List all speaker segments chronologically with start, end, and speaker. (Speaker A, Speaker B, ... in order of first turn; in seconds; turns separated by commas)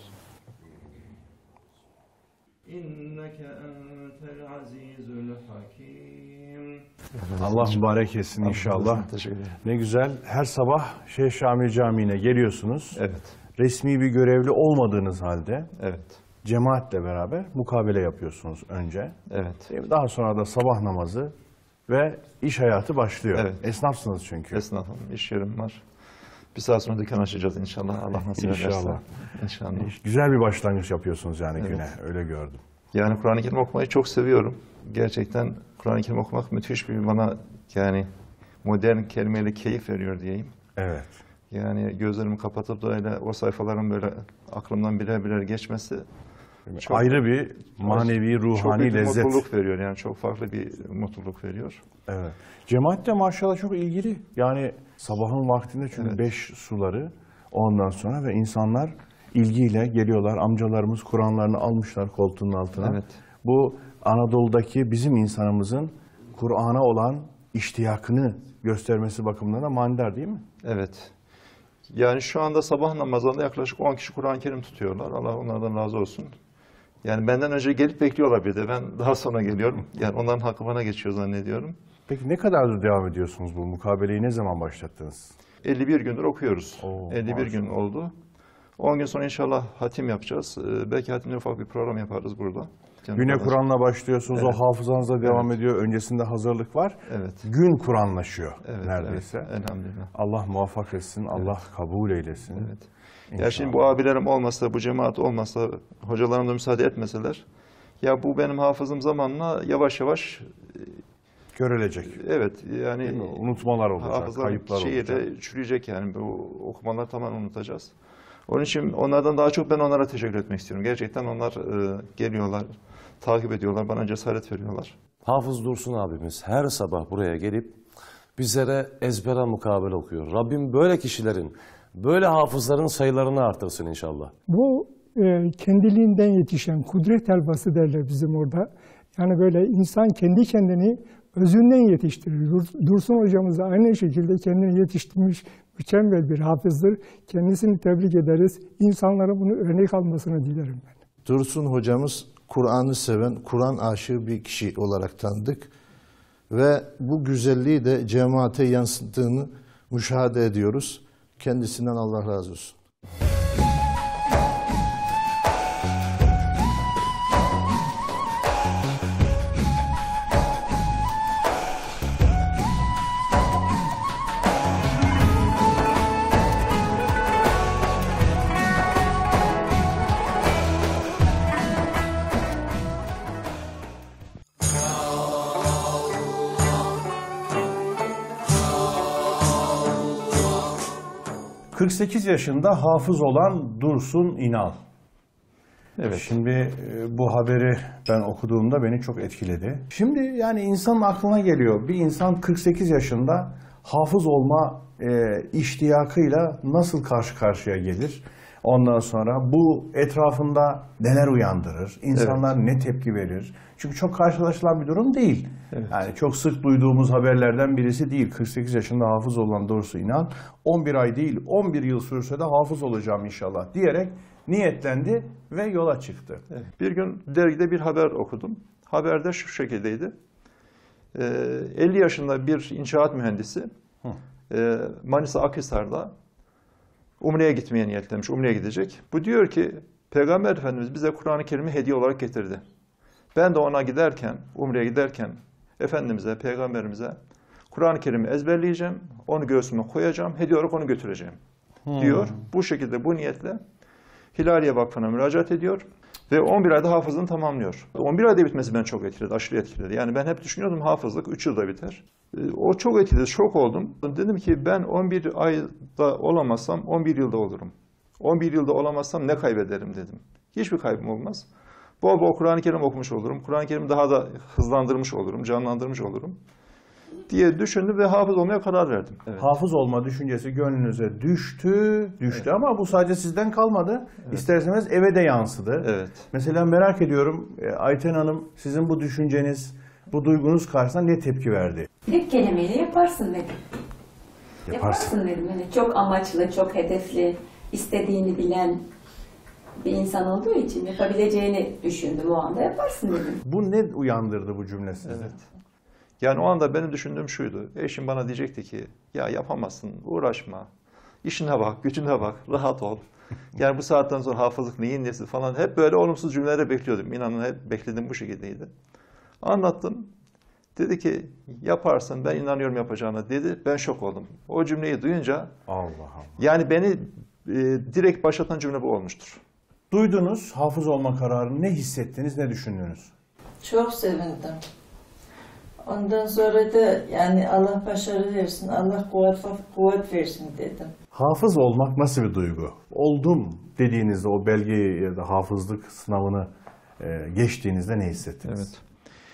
Speaker A: 2.7-7.8, Speaker B: 7.4-9.1, Speaker A: 8.4-9.6, Speaker B: 9.6-13.0, Speaker A: 12.9-13.3, Speaker B: 13.6-15.7, Speaker A: 15.8-16.2, Speaker B: 16.4-19.1, Speaker A: 19.3-19.7, Speaker B: 19.7-21.3, Speaker B: 21.9-24.6, Speaker A: 23.3-23.6, Speaker A: 24.5-25.8, Speaker A: 26.5-29.9, Speaker B: 28.2-29.0, Speaker B: 29.7-32.6, Speaker A: 32.9-38.1, Speaker A: 38.6-40.5, Speaker B: 40.8-41.1, Speaker A: 41.5-46.0, Speaker B: 46.7-49.4, Speaker A: 46.8-51.8, Speaker B: 52.1-70.4, Speaker A: 62.8-63.2, Speaker A: 70.6-71.1, Speaker A: 71.9-76.3, Speaker A: 77.0-81.8, Speaker B: 82.1-85.3, Speaker A: 85.6-88.1, Speaker B: 86.8-87.8, Speaker A: 88.8-93.6, Speaker B: 93.1-99.5, Speaker A: 94.3-94.6, Speaker A: 95.2-95.5, Speaker A: 97.1-97.5, Speaker A: 98.6-100.1, Speaker B: 100.1-102.7, Speaker A: 102.5-107.4, Speaker B: 103.3-103.8, Speaker A: 108.0-111.0, Speaker B: 111.5-112.2, Speaker A: 112.1-113.4, Speaker B: 113.0-115.2, Speaker A: 114.0-117.9, Speaker A: 118.5-124.9, Speaker C: 125.2-127.8, Speaker C: 128.4-134.3, Speaker D: 134.5-150.9, Speaker E: 151.2-155.7, Speaker E: 156.5-162.8, Speaker B: 191.7-194.8, Speaker A: 196.0-196.3, Speaker B: 196.1-226.4, Speaker A: 212.1-212.5, Speaker A: 226.5-230.1, Speaker A: 231.1-233.7, Speaker A: 234.5-236.1, Speaker A: 237.2-242.6, Speaker A: 243.3-247.2, Speaker A: 247.7-251.4, Speaker B: 251.8-252.4, Speaker A: 251.9-253.6, Speaker A: 254.3-271.5, Speaker A: 272.0-276.4, Speaker A: 277.3-279.5, Speaker B: 279.4-291.9, Speaker A: 285.8-286.2, Speaker F: 292.1-293.6, Speaker F: 294.7-298.8, Speaker B: 294.7-295.1, Speaker F: 299.8-303.4, Speaker B: 303.4-305.4, Speaker A: 305.1-305.4, Speaker A: 306.2-310.7, Speaker A: 311.2-318.7, Speaker A: 319.4-320.1, Speaker A: 320.8-325.5, Speaker B: 325.7-326.4, Speaker A: 326.4-329.4, Speaker B: 329.9-333.1, Speaker G: 333.6-334.6, Speaker G: 335.8-340.9, Speaker B: 341.1-348.7, Speaker A: 348.4-348.8